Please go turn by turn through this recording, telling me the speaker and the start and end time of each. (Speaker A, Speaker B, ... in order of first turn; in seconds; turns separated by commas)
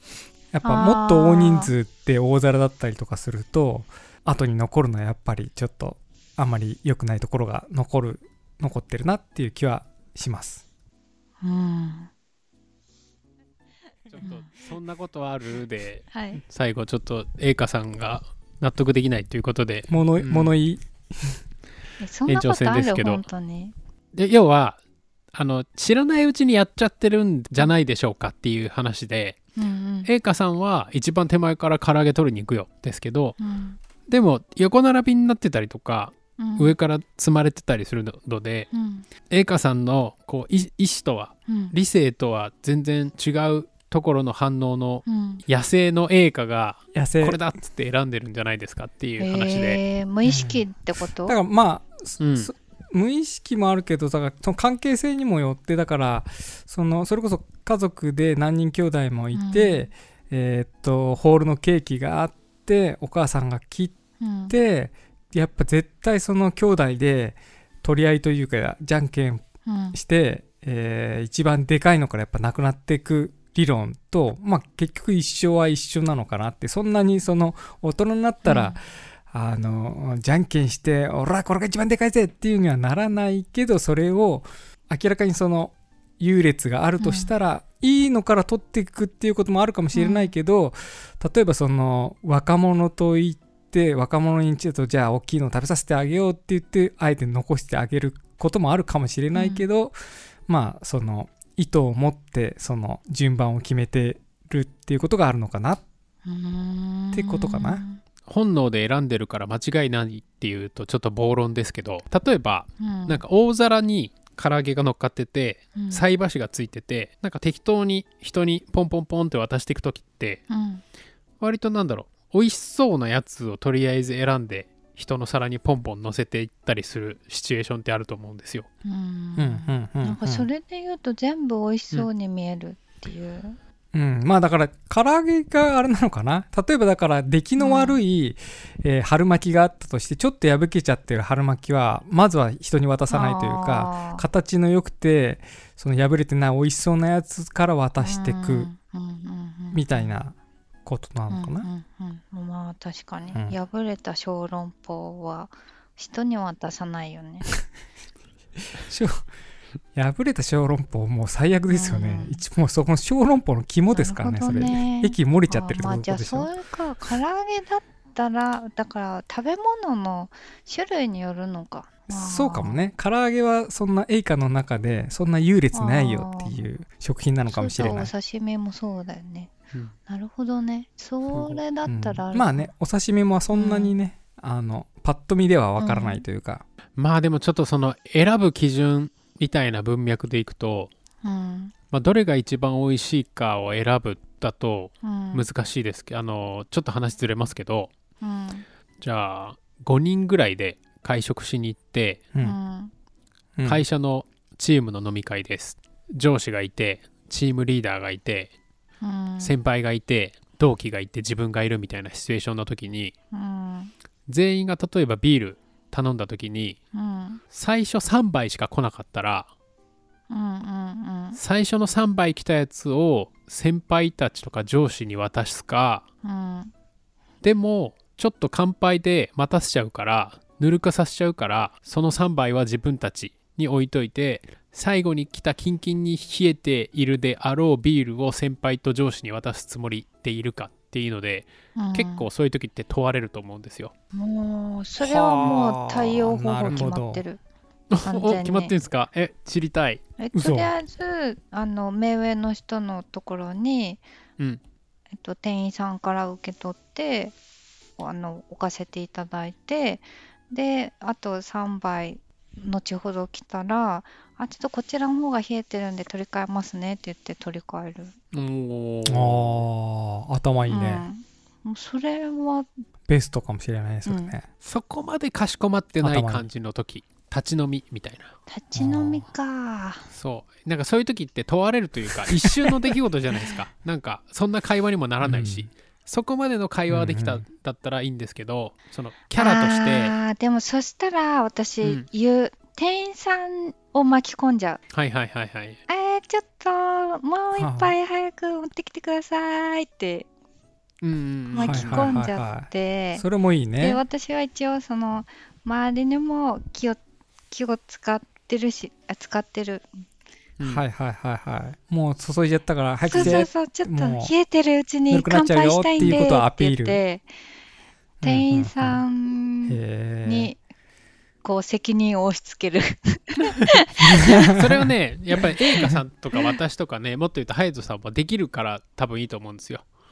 Speaker A: 0.5-10.6, Speaker B: 0.6-1.7, Speaker B: 11.4-12.1, Speaker C: 14.1-20.6, Speaker B: 16.1-16.4, Speaker A: 19.9-21.4, Speaker B: 22.0-23.7, Speaker C: 22.3-23.2, Speaker C: 24.1-24.8, Speaker C: 25.3-29.4, Speaker B: 29.6-30.1, Speaker C: 30.0-33.4, Speaker B: 33.4-33.8, Speaker C: 34.1-38.7, Speaker B: 36.4-36.8, Speaker B: 38.7-39.1, Speaker C: 39.3-49.8, Speaker B: 41.5-41.7, Speaker B: 45.1-45.4, Speaker A: 46.9-47.4, Speaker B: 49.2-51.4, Speaker A: 50.2-50.6, Speaker A: 51.2-64.0, Speaker C: 52.2-52.5, Speaker B: 59.3-59.9, Speaker B: 64.2-64.5, Speaker A: 64.5-100.0, Speaker B: 69.7-70.0, Speaker B: 78.5-78.8, Speaker B: 87.0-87.3, Speaker B: 89.9-90.3, Speaker B: 99.3-99.7, Speaker A: 100.5-105.8, Speaker B: 106.3-108.0, Speaker A: 107.1-107.8, Speaker C: 108.3-120.4, Speaker B: 112.8-113.2, Speaker B: 115.8-116.1, Speaker B: 120.5-120.8, Speaker C: 121.4-128.7, Speaker B: 128.8-133.6, Speaker A: 129.4-130.5, Speaker A: 133.9-148.7, Speaker B: 137.6-138.0, Speaker B: 143.1-144.2, Speaker B: 148.0-150.2, Speaker A: 149.7-151.7, Speaker B: 151.3-157.5, Speaker A: 158.8-159.2, Speaker A: 159.9-166.5, Speaker B: 161.7-162.4, Speaker B: 163.9-172.8, Speaker A: 172.1-178.1, Speaker B: 175.7-176.6, Speaker B: 177.5-179.5, Speaker B: 180.1-182.7, Speaker C: 181.3-181.6, Speaker A: 181.8-186.6, Speaker B: 183.5-184.0, Speaker B: 185.8-186.2, Speaker C: 187.0-190.9, Speaker B: 191.2-191.7, Speaker C: 191.9-197.9, Speaker B: 195.0-195.5, Speaker B: 198.2-198.7, Speaker C: 199.0-202.2, Speaker B: 202.4-202.9, Speaker A: 203.6-203.8, Speaker C: 203.7-208.5, Speaker B: 209.0-209.5, Speaker C: 209.4-213.1, Speaker B: 213.3-213.9, Speaker C: 214.3-216.8, Speaker B: 216.9-217.4, Speaker C: 217.5-219.5, Speaker B: 220.3-221.4, Speaker C: 221.4-226.0, Speaker B: 226.2-226.7, Speaker C: 227.4-243.9, Speaker B: 241.8-242.3, Speaker B: 244.1-247.4, Speaker A: 245.0-247.2, Speaker C: 247.9-250.0, Speaker B: 248.0-248.8, Speaker B: 250.2-254.0, Speaker A: 250.3-250.7, Speaker B: 255.2-257.3, Speaker B: 258.0-268.1, Speaker C: 268.3-269.7, Speaker A: 269.1-271.1, Speaker B: 270.7-272.7, Speaker A: 273.1-274.5, Speaker B: 274.1-274.3, Speaker C: 274.6-278.3, Speaker A: 276.0-276.5, Speaker B: 278.5-280.1, Speaker A: 278.8-279.3, Speaker C: 280.1-290.1, Speaker A: 285.2-285.7, Speaker A: 286.9-287.4, Speaker B: 289.4-294.8, Speaker C: 291.8-292.1, Speaker C: 294.9-295.8, Speaker B: 295.9-300.3, Speaker A: 297.6-297.9, Speaker C: 301.0-302.1, Speaker B: 301.5-303.2, Speaker A: 301.6-304.0, Speaker B: 303.8-307.0, Speaker B: 307.5-309.9, Speaker C: 310.6-310.9, Speaker A: 310.7-314.3, Speaker B: 313.0-317.3, Speaker C: 313.1-313.5, Speaker A: 315.1-317.0, Speaker C: 316.0-316.3, Speaker A: 318.2-319.0, Speaker B: 318.2-320.6, Speaker A: 319.7-320.5, Speaker B: 321.4-324.5, Speaker A: 324.2-324.6, Speaker C: 324.3-329.8